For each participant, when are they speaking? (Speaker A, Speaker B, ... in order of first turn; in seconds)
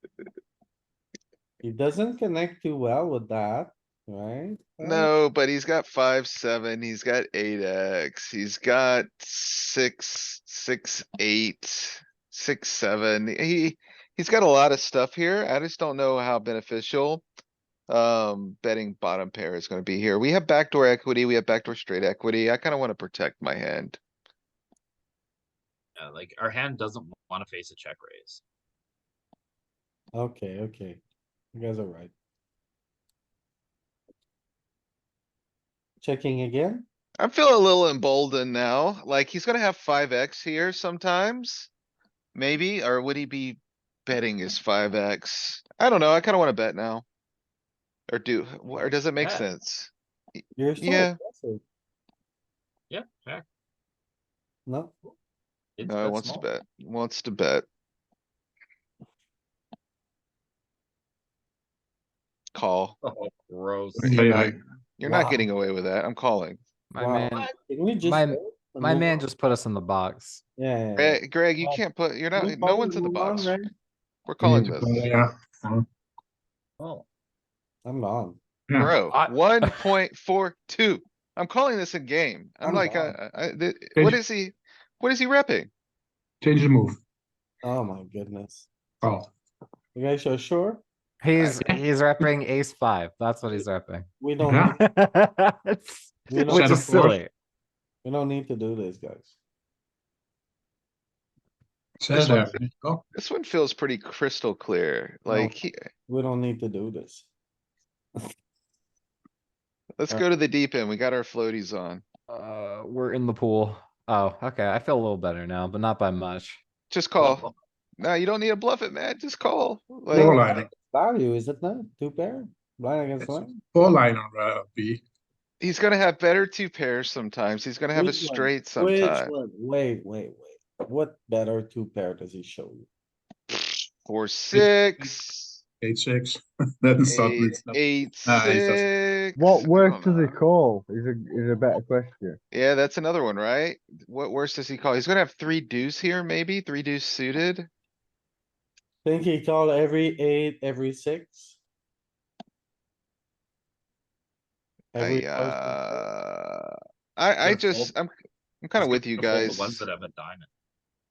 Speaker A: 1.6-5.1, 30.1-31.0, 31.5-32.1, 36.0-36.9, 50.5-51.6, 54.6-54.9, 65.0-65.5, 67.0-69.2, 70.6-71.2, 72.3-73.7, 77.8-78.4, 82.6-83.2, 87.6-88.7, 89.9-90.8, 94.2-94.7, 96.3-96.9, 98.0-99.4, 105.3-105.5, 106.1-107.3, 120.1-123.6, 127.9-132.9, 149.0-151.6, 154.9-156.1
Speaker B: 4.8-17.2, 17.9-24.0, 37.2-41.7, 42.3-47.0, 48.1-51.1, 55.9-57.6, 62.5-63.0, 64.0-66.6, 71.0-73.5, 74.3-75.1, 78.8-85.7, 91.4-91.7, 102.1-102.5, 103.1-105.8, 110.0-112.0, 116.9-117.5, 118.0-120.7, 125.6-129.3, 133.5-135.6, 137.0-140.4, 142.5-147.7, 155.0-159.8
Speaker C: 26.0-28.4, 49.2-49.5, 52.9-53.4, 55.8-56.5, 63.0-64.3, 76.8-77.0, 117.2-117.5, 157.4-157.9, 158.8-160.5
Speaker D: 64.0-64.6, 74.4-75.8, 78.7-79.0, 83.9-84.2, 86.4-87.0, 89.0-89.3, 94.4-94.8, 96.4-97.2, 102.0-103.0, 120.1-120.7, 123.7-125.0, 134.5-135.1, 135.8-138.9
Speaker E: 66.9-67.5, 68.0-70.4, 91.2-94.1, 94.8-97.3, 112.3-116.6
Speaker F: 139.3-142.3